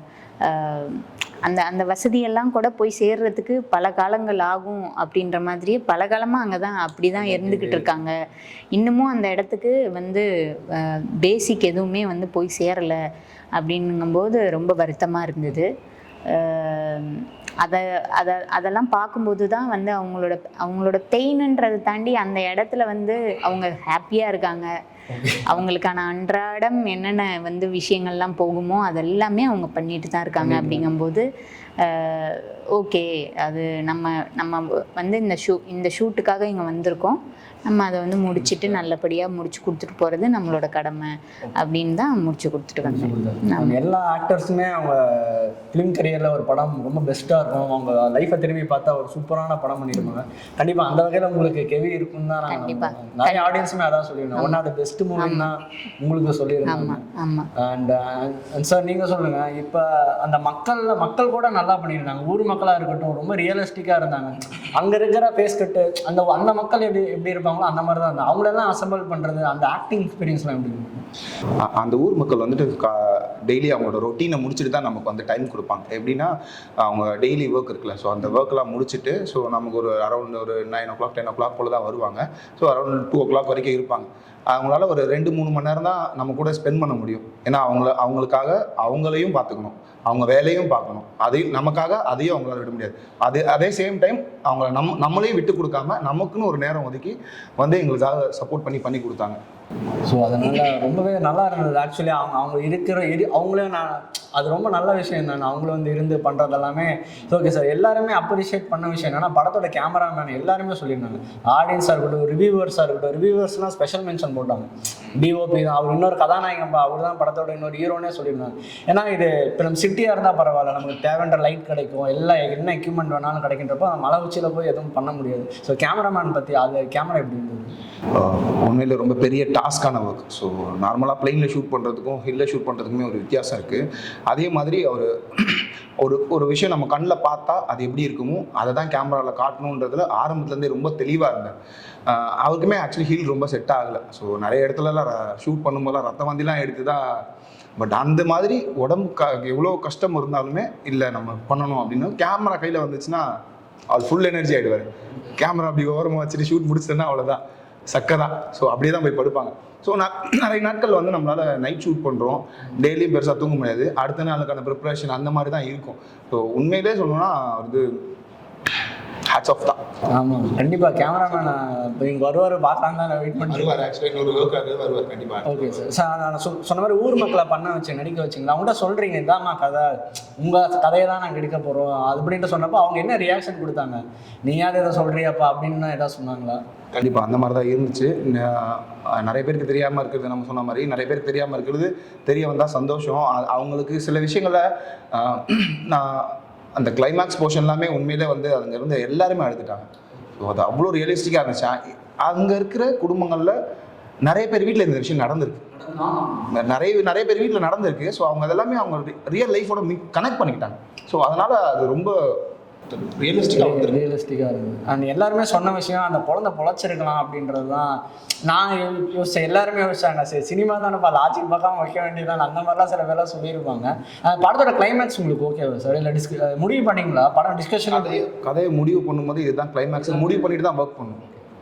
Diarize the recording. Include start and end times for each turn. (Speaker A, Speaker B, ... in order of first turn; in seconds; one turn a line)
Speaker A: 0.4-8.1
Speaker B: 7.2-7.9
Speaker A: 8.7-13.0
Speaker A: 13.6-15.7
Speaker A: 16.3-24.7
Speaker B: 25.1-25.6
Speaker A: 25.5-31.3
Speaker B: 30.4-30.9
Speaker A: 31.8-43.8
Speaker B: 38.4-38.8
Speaker B: 42.8-57.0
Speaker A: 52.5-53.6
Speaker A: 55.2-55.5
Speaker A: 56.7-57.5
Speaker B: 57.6-70.9
Speaker C: 71.6-99.4
Speaker B: 100.0-127.8
Speaker C: 128.1-141.6
Speaker C: 142.1-147.2
Speaker C: 147.8-153.3
Speaker C: 153.9-167.9
Speaker C: 169.3-169.8
Speaker B: 170.1-173.8
Speaker C: 173.5-175.9
Speaker B: 175.4-186.6
Speaker C: 186.9-199.9
Speaker C: 200.4-203.6
Speaker C: 204.2-205.6
Speaker B: 205.8-206.5
Speaker C: 206.5-214.0
Speaker B: 213.6-217.9
Speaker B: 218.4-228.2
Speaker C: 227.9-231.2
Speaker B: 230.1-230.5